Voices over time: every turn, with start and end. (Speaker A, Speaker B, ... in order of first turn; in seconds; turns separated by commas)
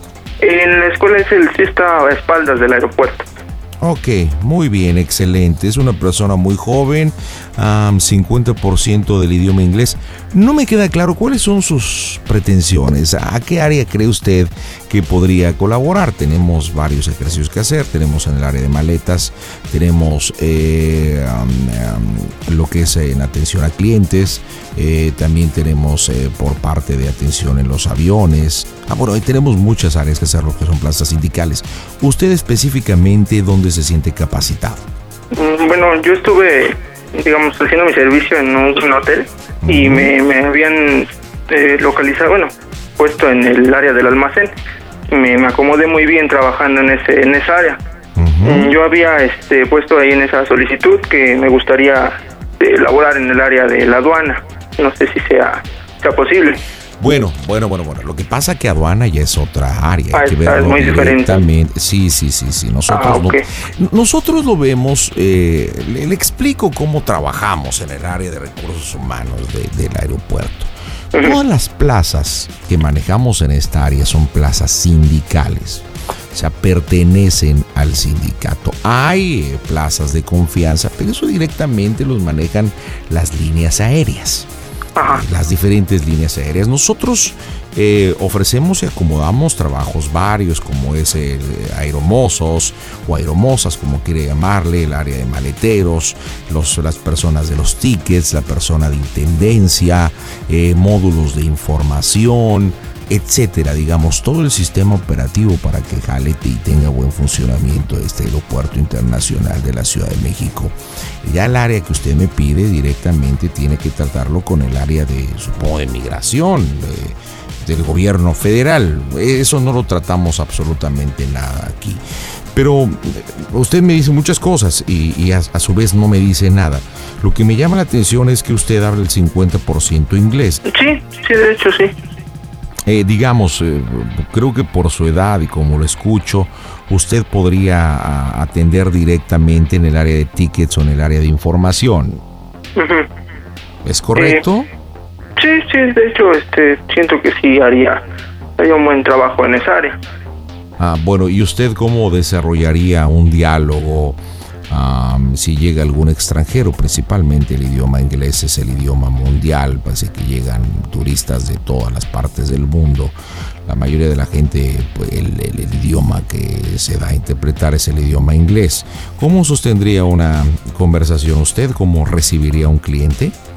Speaker A: 0.4-3.2, Speaker B: 3.8-34.8, Speaker A: 35.3-44.5, Speaker B: 39.6-40.1, Speaker A: 45.1-47.8, Speaker B: 48.1-48.7, Speaker A: 48.4-56.6, Speaker B: 57.0-84.5, Speaker A: 60.1-61.4, Speaker A: 62.9-63.4, Speaker A: 85.0-85.2, Speaker B: 85.0-122.0, Speaker B: 122.5-130.6, Speaker A: 130.7-131.9, Speaker B: 132.8-142.2, Speaker A: 142.8-143.1, Speaker B: 143.8-144.7, Speaker A: 144.2-144.4, Speaker A: 145.4-148.0, Speaker A: 148.6-150.0, Speaker B: 150.8-173.3